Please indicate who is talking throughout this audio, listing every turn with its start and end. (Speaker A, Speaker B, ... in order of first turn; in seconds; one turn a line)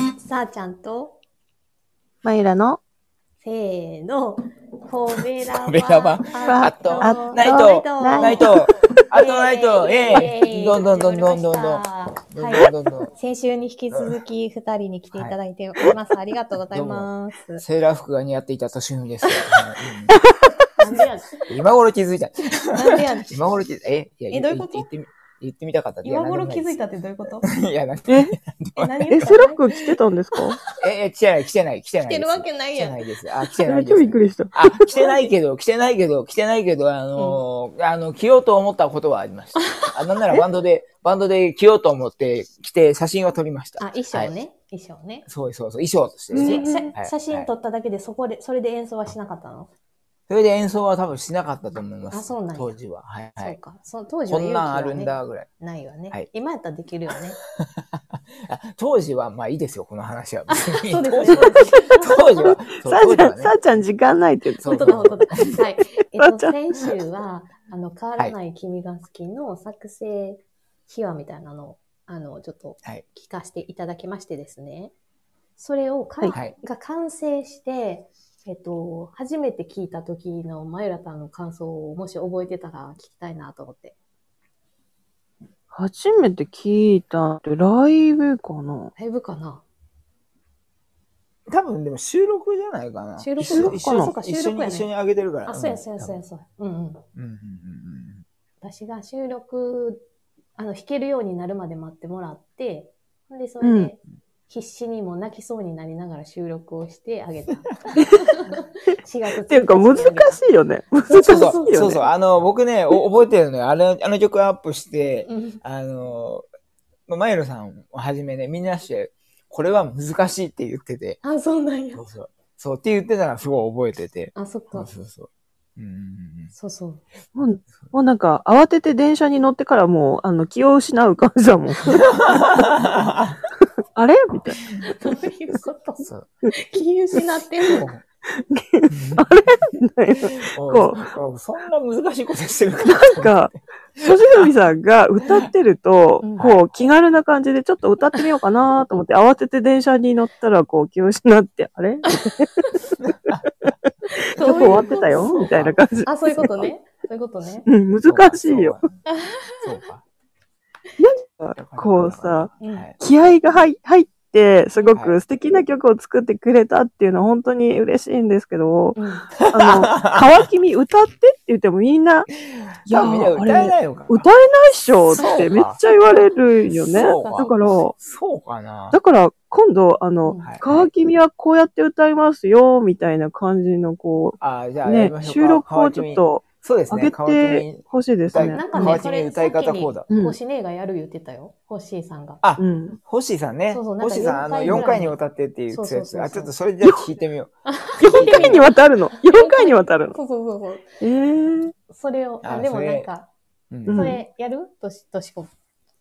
Speaker A: 0.2-1.2
Speaker B: 2.2-2.8
Speaker A: 3.4-8.5
Speaker C: 5.6-13.1
Speaker B: 6.4-8.5
Speaker A: 9.1-17.6
Speaker C: 13.9-14.2
Speaker C: 15.1-15.9
Speaker C: 16.7-20.2
Speaker A: 20.8-21.5
Speaker C: 21.5-29.4
Speaker A: 22.7-23.5
Speaker A: 24.3-24.9
Speaker A: 26.0-27.5
Speaker B: 28.1-28.3
Speaker A: 28.8-29.7
Speaker B: 29.1-30.6
Speaker A: 30.4-30.6
Speaker C: 30.8-44.3
Speaker A: 32.0-33.0
Speaker B: 33.6-34.9
Speaker A: 39.6-40.4
Speaker A: 43.8-45.2
Speaker C: 45.3-47.5
Speaker B: 46.3-46.9
Speaker A: 46.4-49.7
Speaker C: 50.3-53.6
Speaker A: 52.1-52.8
Speaker A: 53.4-57.4
Speaker C: 54.3-55.5
Speaker C: 57.6-63.6
Speaker A: 60.5-62.3
Speaker B: 61.9-64.8
Speaker C: 64.6-65.6
Speaker A: 64.6-74.9
Speaker B: 65.3-65.6
Speaker B: 66.2-66.9
Speaker A: 75.6-84.0
Speaker B: 85.7-88.9
Speaker A: 89.0-89.7
Speaker C: 91.5-96.2
Speaker A: 93.2-94.9
Speaker B: 93.5-94.1
Speaker A: 95.5-97.0
Speaker C: 97.2-98.2
Speaker A: 98.6-100.0
Speaker A: 100.6-110.4
Speaker B: 103.6-103.9
Speaker B: 109.5-112.0
Speaker C: 111.1-116.5
Speaker A: 111.2-112.0
Speaker A: 115.3-115.6
Speaker C: 117.1-121.2
Speaker A: 121.2-122.0
Speaker C: 122.0-126.5
Speaker A: 124.3-124.9
Speaker A: 126.5-127.0
Speaker B: 127.3-132.1
Speaker C: 132.2-133.4
Speaker B: 133.9-134.6
Speaker A: 134.8-137.9
Speaker C: 136.0-136.3
Speaker C: 137.7-138.0
Speaker B: 138.3-141.1
Speaker C: 138.9-139.3
Speaker C: 140.4-143.6
Speaker B: 142.8-152.5
Speaker A: 146.2-146.5
Speaker C: 146.4-146.7
Speaker C: 153.0-153.4
Speaker A: 154.1-157.7
Speaker C: 154.3-155.8
Speaker B: 154.4-156.7
Speaker B: 157.7-158.8
Speaker C: 158.1-159.0
Speaker A: 159.2-159.6
Speaker C: 159.6-160.0
Speaker B: 161.0-169.0
Speaker C: 161.6-163.0
Speaker A: 162.6-162.9
Speaker A: 169.0-169.3
Speaker C: 169.4-170.4
Speaker B: 169.5-172.3
Speaker C: 172.9-174.3
Speaker B: 172.9-177.9
Speaker C: 175.1-175.8
Speaker A: 176.1-177.8
Speaker C: 176.9-179.0
Speaker B: 178.9-189.0
Speaker A: 180.2-180.5
Speaker C: 180.4-180.9
Speaker C: 184.4-190.1
Speaker A: 188.3-192.4
Speaker B: 190.1-190.4
Speaker C: 192.4-198.7
Speaker B: 192.6-193.0
Speaker A: 193.7-195.2
Speaker A: 195.7-196.5
Speaker A: 197.7-200.9
Speaker B: 198.0-200.2
Speaker B: 201.0-201.7
Speaker A: 201.9-203.3
Speaker C: 202.4-203.1
Speaker C: 203.7-204.1
Speaker A: 203.9-205.5
Speaker B: 203.9-204.2